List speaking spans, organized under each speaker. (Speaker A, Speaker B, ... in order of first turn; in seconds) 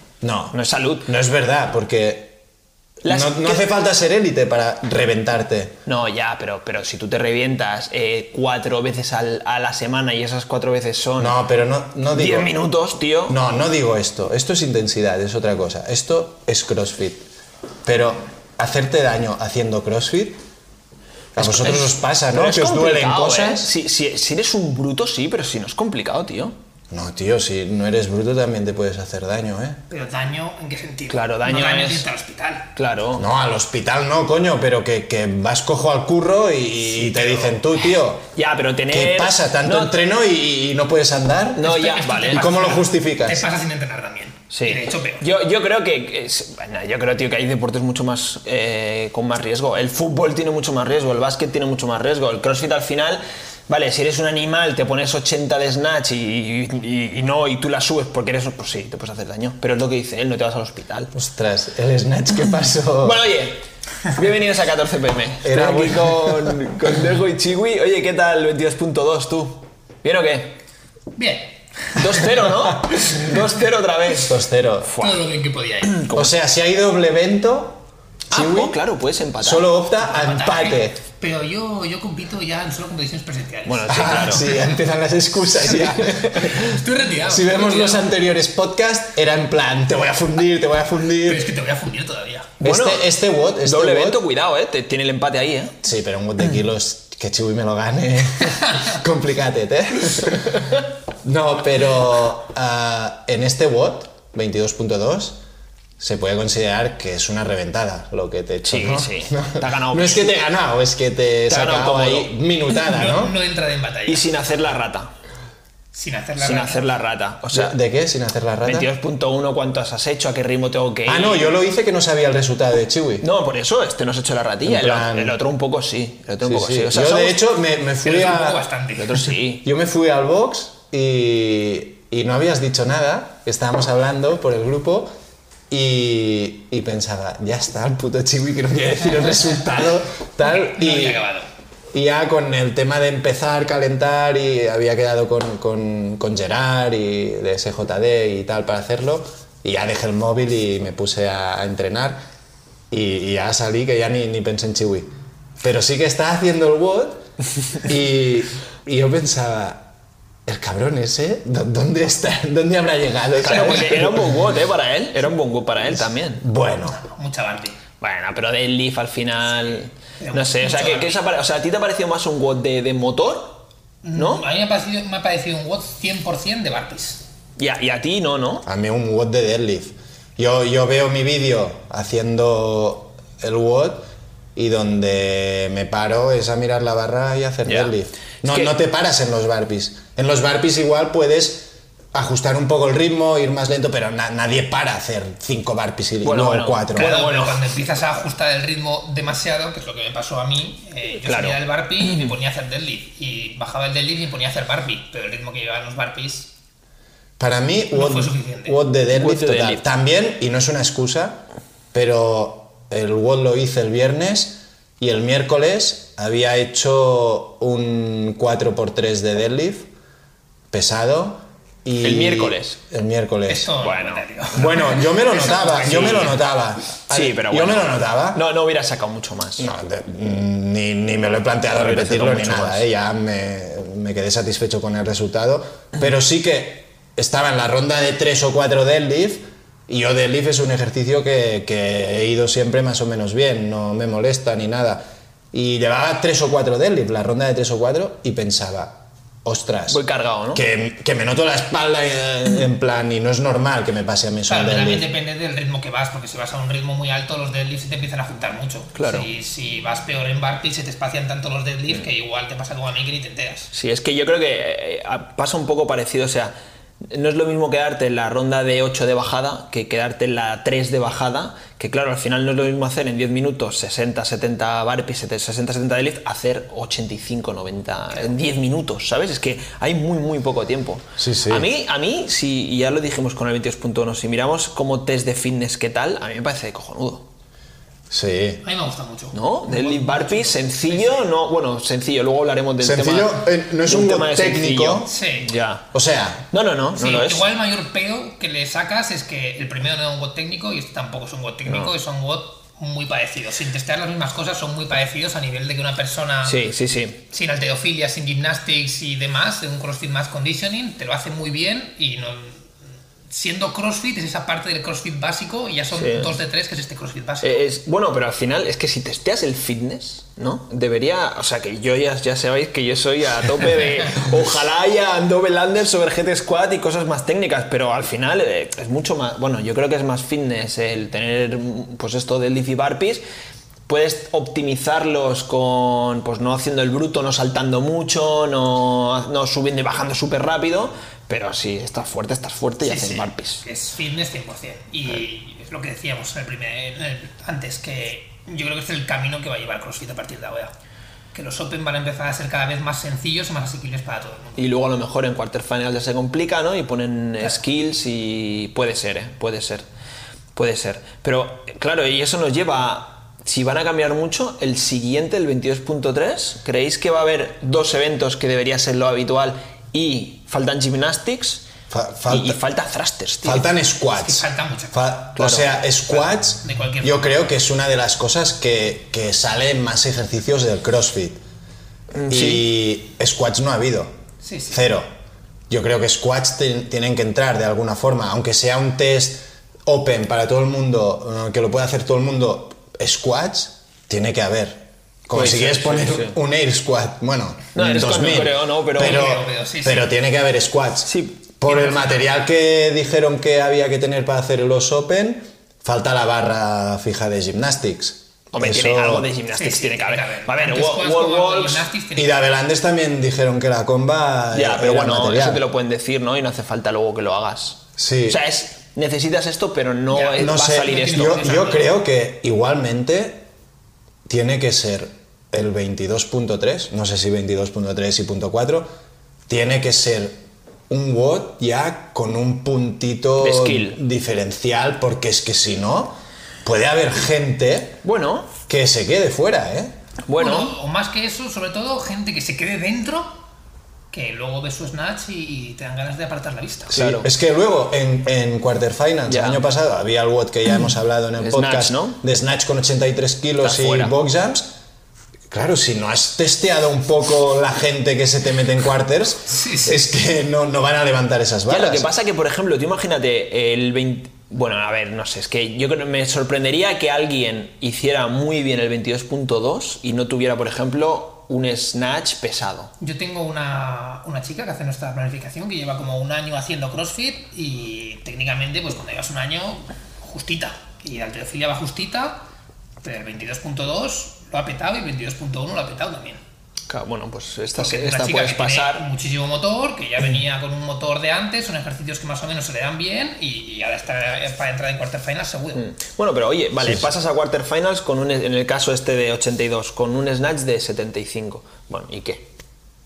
Speaker A: 0.2-2.4, 3.0-5.7, 11.2-12.5, 13.3-17.2, 17.8-20.4, 21.4-23.7, 26.9-29.8, 33.2-38.2, 38.9-41.7, 42.3-43.5, 61.1-63.2, 65.4-66.6, 74.1-74.9, 76.2-78.8, 79.4-81.0, 83.9-91.5, 92.6-94.2, 95.8-105.4, 106.0-113.3, 117.5-118.9, 121.1-123.2, 124.6-125.4, 126.4-128.6, 129.6-135.1, 135.7-141.2, 141.9-152.2, 152.9-155.1, 155.6-157.2, 157.8-159.8, 160.5-164.2, 166.4-167.0, 178.6-197.2, 207.4-211.4, 211.9-219.9, 220.7-223.7, 224.5-228.4, 229.6-250.0, 250.5-255.1, 281.2-281.7, 288.1-288.6, 292.8-295.1, 295.9-296.5, 371.9-372.6, 373.4-381.4, 382.3-384.1, 384.7-385.1, 385.7-409.3, 412.2-415.6, 418.0-418.4, 420.4-423.5, 424.2-428.9, 429.5-438.0, 438.7-439.9, 446.9-454.7, 455.5-462.1
Speaker B: 0.5-1.1, 3.0-3.6, 5.9-11.4, 12.1-13.4, 21.3-26.6, 31.1-32.1, 32.8-33.2, 38.3-40.0, 41.5-42.5, 44.5-61.1, 63.0-70.5, 72.0-75.2, 75.8-76.3, 78.3-79.7, 83.7-84.5, 85.8-86.3, 92.6-93.1, 93.6-95.8, 108.7-110.2, 111.5-112.3, 114.1-115.1, 116.4-117.8, 118.6-121.6, 123.2-127.4, 128.9-129.6, 163.4-166.4, 168.0-173.6, 174.1-174.4, 177.6-178.7, 187.6-187.9, 188.4-188.7, 196.2-197.6, 201.2-202.3, 209.1-209.8, 222.0-222.8, 223.8-224.2, 225.8-226.3, 227.1-229.7, 231.7-232.8, 249.9-250.6, 259.0-259.3, 263.7-287.2, 289.3-295.9, 296.5-297.5, 301.7-301.9, 306.4-307.2, 315.9-316.3, 317.4-333.2, 333.9-343.6, 354.6-359.9, 360.6-371.6, 372.3-373.7, 375.4-375.8, 382.1-382.7, 395.3-396.4, 397.8-399.3, 401.1-401.4, 408.5-411.9, 414.5-421.4, 433.4-434.0, 438.0-438.5, 440.2-440.8, 446.9-447.3, 449.3-449.6, 451.4-452.2, 453.6-454.1, 461.7-472.9, 486.9-489.0, 495.8-502.5
Speaker C: 29.9-32.7, 36.9-37.6, 41.6-45.2, 71.2-72.4, 75.0-76.0, 80.0-84.8, 85.7-88.0, 91.2-92.5, 112.8-114.5, 115.9-116.8, 128.0-129.3, 140.4-141.5, 166.8-167.8, 170.2-171.2, 174.0-177.2, 196.9-206.5, 207.9-208.8, 223.5-226.4, 254.5-263.7, 288.6-291.3, 295.1-295.5, 297.0-306.6, 307.3-312.6, 313.3-317.6, 324.0-324.3, 342.8-350.7, 351.3-354.6, 374.2-375.2, 376.6-377.5, 384.4-384.8, 399.0-400.1, 401.7-402.3, 409.5-412.4, 420.1-421.9, 440.4-443.4, 444.1-447.0, 459.5-460.1, 473.0-482.4, 483.0-486.4, 487.8-495.9